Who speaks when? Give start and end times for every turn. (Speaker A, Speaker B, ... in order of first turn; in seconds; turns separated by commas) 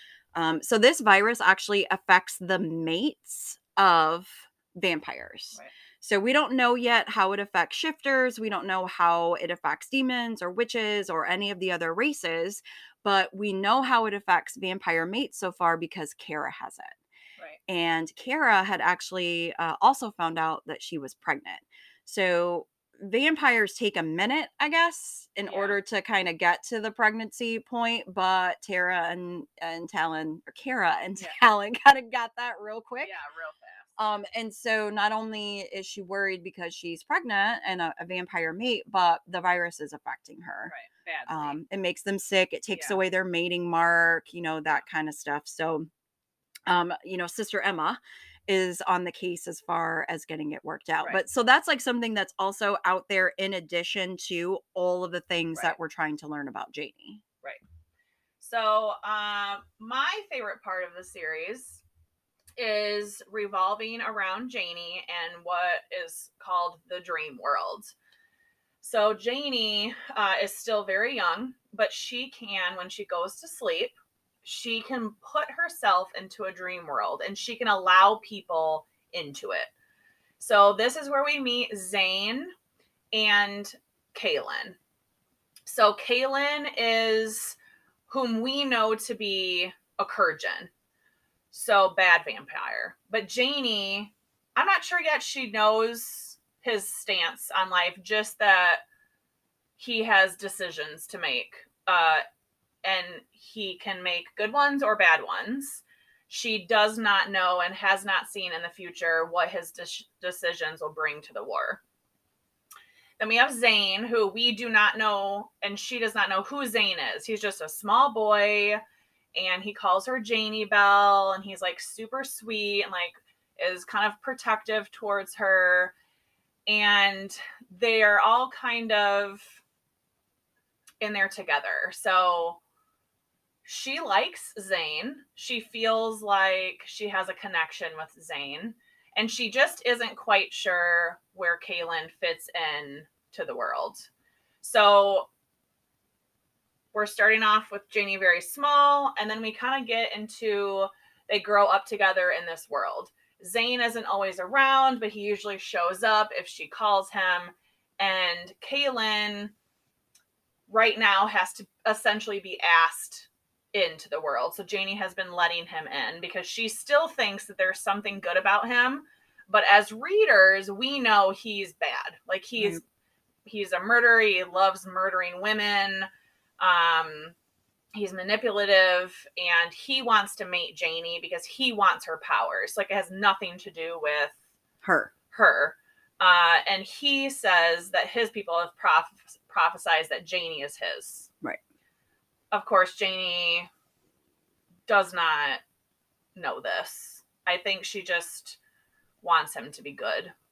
Speaker A: 0.3-17.0, Speaker A: 17.7-33.1, Speaker B: 25.5-25.8, Speaker B: 33.0-33.9, Speaker A: 34.0-40.7, Speaker B: 40.7-41.6, Speaker A: 41.3-45.9, Speaker B: 42.7-43.0, Speaker A: 46.7-57.2, Speaker B: 58.4-61.8, Speaker B: 62.6-67.9, Speaker B: 68.8-79.7, Speaker B: 80.4-82.5, Speaker B: 83.1-84.8, Speaker B: 85.7-87.6, Speaker B: 88.1-90.7, Speaker B: 91.5-98.8, Speaker B: 99.8-102.2, Speaker B: 102.8-111.8, Speaker B: 113.2-118.8, Speaker B: 119.3-125.9, Speaker B: 126.7-129.6, Speaker B: 131.0-132.6, Speaker B: 133.7-144.1, Speaker B: 144.6-145.3, Speaker B: 146.9-159.5, Speaker B: 160.7-172.8, Speaker B: 173.5-176.1, Speaker B: 176.6-177.3, Speaker B: 177.9-184.4, Speaker A: 184.8-185.1, Speaker B: 185.3-191.3, Speaker B: 192.5-193.7, Speaker B: 194.9-195.6, Speaker B: 196.4-198.6, Speaker B: 199.2-200.3